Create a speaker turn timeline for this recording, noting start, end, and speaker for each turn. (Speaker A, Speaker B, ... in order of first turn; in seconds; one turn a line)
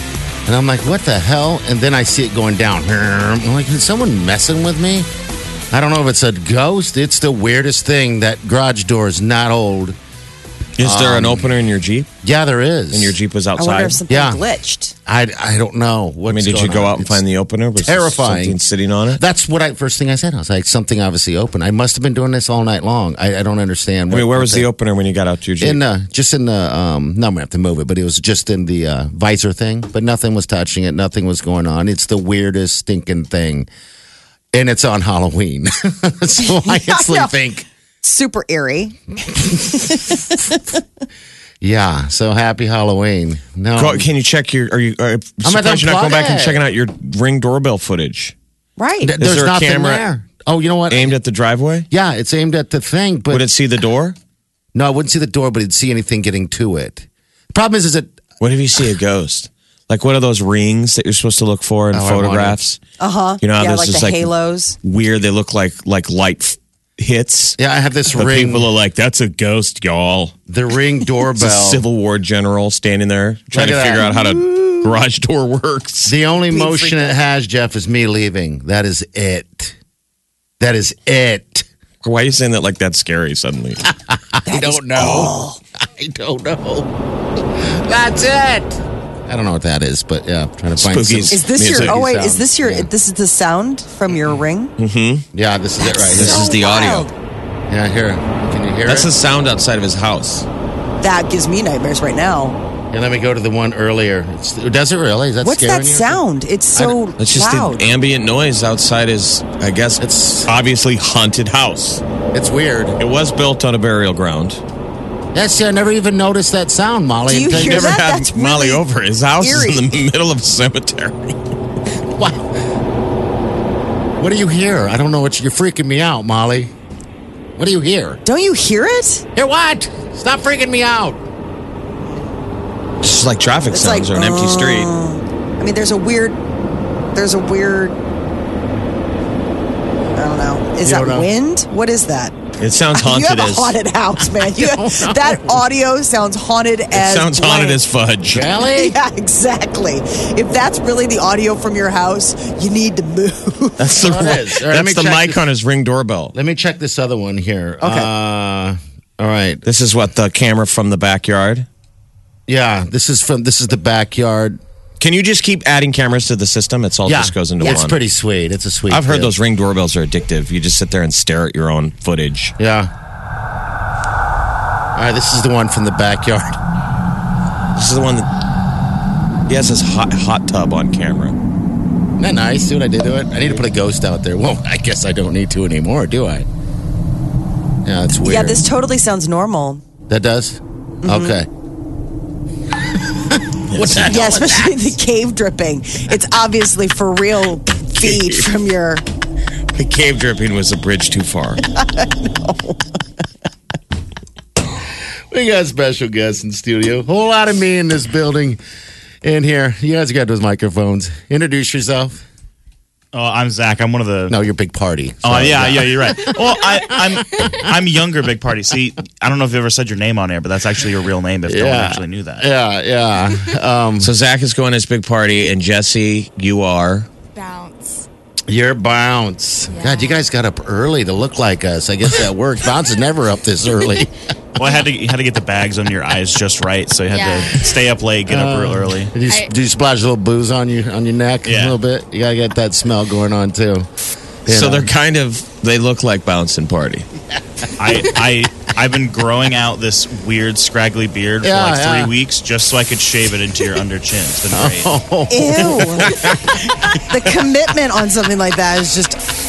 Speaker A: 0.5-5.1
Speaker A: 5.7-10.0
Speaker B: 10.8-12.1
Speaker A: 10.8-11.5
Speaker A: 12.2-13.2
Speaker B: 12.9-14.0
Speaker C: 13.6-14.9
Speaker A: 14.1-14.4
Speaker A: 15.1-17.2
Speaker B: 16.3-19.2
Speaker A: 17.8-18.6
Speaker A: 19.1-24.7
Speaker B: 24.1-25.8
Speaker A: 25.6-33.7
Speaker A: 34.5-37.7
Speaker C: 36.4-37.3
Speaker C: 38.0-40.6
Speaker A: 39.4-39.8
Speaker A: 41.6-44.1
Speaker B: 43.8-48.3
Speaker A: 45.4-46.6
Speaker C: 48.8-49.1
Speaker A: 49.0-51.1
Speaker B: 49.2-50.0
Speaker B: 50.9-51.9
Speaker A: 51.9-53.5
Speaker B: 53.3-54.2
Speaker A: 54.7-58.2
Speaker B: 58.4-62.8
Speaker A: 61.9-62.6
Speaker C: 63.0-64.8
Speaker B: 63.4-64.3
Speaker B: 64.8-67.6
Speaker A: 67.6-68.7
Speaker B: 68.1-70.3
Speaker A: 70.5-71.8
Speaker B: 71.4-76.2
Speaker A: 73.5-74.2
Speaker A: 76.1-79.8
Speaker C: 76.5-77.2
Speaker A: 80.6-81.7
Speaker B: 82.0-83.8
Speaker A: 83.9-86.9
Speaker C: 84.5-85.6
Speaker A: 87.5-92.9
Speaker B: 90.8-92.0
Speaker C: 91.3-94.7
Speaker B: 94.8-95.3
Speaker A: 95.3-96.5
Speaker C: 95.8-97.1
Speaker B: 96.2-97.1
Speaker A: 97.7-99.1
Speaker B: 98.9-100.5
Speaker C: 101.0-102.6
Speaker A: 102.9-106.2
Speaker C: 105.4-107.8
Speaker B: 107.2-112.0
Speaker A: 110.0-110.5
Speaker A: 112.3-113.0
Speaker B: 113.0-114.6
Speaker A: 115.3-118.0
Speaker C: 117.3-118.8
Speaker B: 117.5-121.4
Speaker C: 119.4-119.8
Speaker A: 122.2-122.5
Speaker A: 124.2-126.7
Speaker A: 127.6-128.2
Speaker C: 128.2-129.3
Speaker A: 129.3-131.2
Speaker B: 133.0-134.9
Speaker C: 133.7-136.4
Speaker C: 137.1-138.0
Speaker C: 140.2-142.4
Speaker A: 140.8-141.3
Speaker B: 142.6-143.7
Speaker C: 142.9-147.8
Speaker A: 144.3-145.6
Speaker B: 146.9-148.5
Speaker A: 148.3-149.0
Speaker C: 148.6-153.9
Speaker B: 153.8-156.3
Speaker A: 154.0-155.4
Speaker A: 156.3-159.6
Speaker C: 157.8-158.1
Speaker B: 159.7-161.7
Speaker A: 162.5-164.6
Speaker B: 165.0-168.0
Speaker A: 167.1-169.3
Speaker B: 168.9-172.6
Speaker A: 172.6-172.9
Speaker A: 174.9-176.6
Speaker B: 177.8-178.3
Speaker B: 179.5-181.3
Speaker A: 182.2-186.5
Speaker A: 187.8-188.6
Speaker C: 188.1-189.8
Speaker A: 190.1-191.5
Speaker C: 191.0-191.4
Speaker A: 193.1-195.0
Speaker B: 193.7-194.2
Speaker C: 194.1-199.0
Speaker B: 198.0-198.5
Speaker B: 199.7-201.6
Speaker C: 201.7-202.8
Speaker A: 205.3-208.6
Speaker A: 209.2-212.2
Speaker D: 213.1-214.3
Speaker A: 214.3-217.6
Speaker D: 215.2-222.4
Speaker E: 217.3-217.6
Speaker A: 221.5-224.1
Speaker B: 224.0-227.1
Speaker E: 227.3-228.1
Speaker A: 228.5-234.1
Speaker E: 229.7-230.3
Speaker D: 234.6-239.1
Speaker E: 237.1-237.8
Speaker A: 238.3-243.9
Speaker E: 239.2-239.5
Speaker D: 241.5-241.8
Speaker A: 244.5-244.9
Speaker B: 244.5-247.1
Speaker D: 247.8-254.9
Speaker A: 251.4-252.1
Speaker A: 254.5-256.4
Speaker C: 255.3-256.1
Speaker B: 256.1-256.4
Speaker C: 256.8-259.2